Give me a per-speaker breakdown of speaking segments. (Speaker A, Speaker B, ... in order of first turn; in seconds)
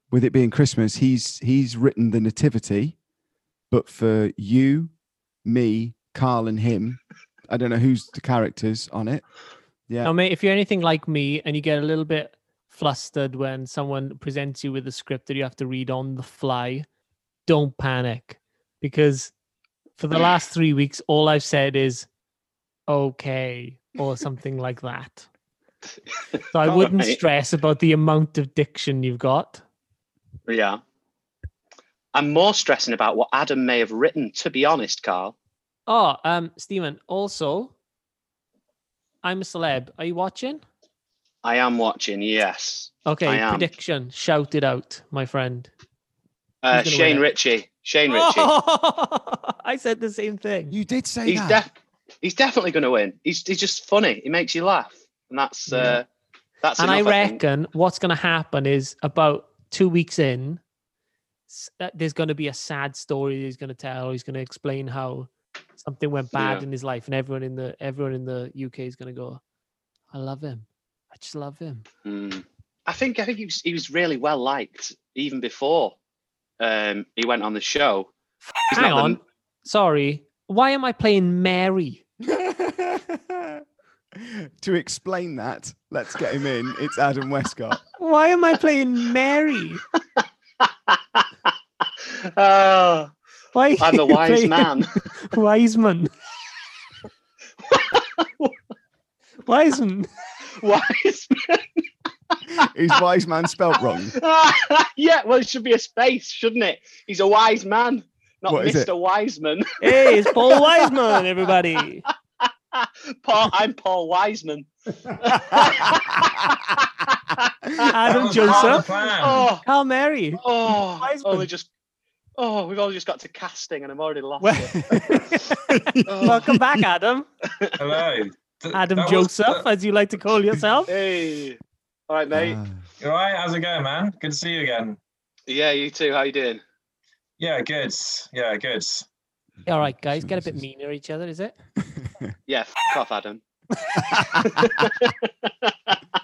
Speaker A: 0.1-3.0, 3.7-4.9, 5.4-9.2, 50.7-51.6, 82.2-83.6, 84.1-87.8, 102.5-104.2, 108.5-108.9, 115.5-116.2, 125.7-126.6, 132.3-132.8, 140.1-140.6, 141.9-142.3, 143.9-144.7
Speaker B: 10.0-16.9, 17.4-19.3, 20.0-22.1, 22.9-25.3, 26.5-29.6, 35.9-37.7, 39.2-40.6, 43.0-45.7, 46.7-47.2, 48.1-50.7, 55.7-56.0, 56.8-60.6, 61.5-69.4, 70.1-71.8, 78.4-82.0, 88.0-89.8, 93.5-96.1, 99.4-100.1, 109.8-112.0, 117.8-118.8, 119.6-120.4, 121.0-121.5, 124.4-125.7, 126.2-127.2, 128.7-130.9, 139.7-141.5
Speaker C: 26.3-27.2, 30.5-30.8, 32.1-35.3, 41.4-43.7, 46.6-48.5, 51.2-56.0, 56.6-57.4, 66.3-66.6, 72.0-75.9, 76.6-78.1, 78.7-79.2, 90.2-91.2, 92.0-93.1, 93.8-95.0, 97.6-98.5, 100.6-101.8, 104.1-111.1, 112.4-119.6, 120.4-121.7, 122.4-125.2, 126.0-126.5, 127.5-127.8, 130.9-132.6, 135.5-136.6, 142.5-143.4, 144.2-146.0
Speaker D: 118.1-119.5, 127.8-129.6, 133.0-135.0, 137.4-139.1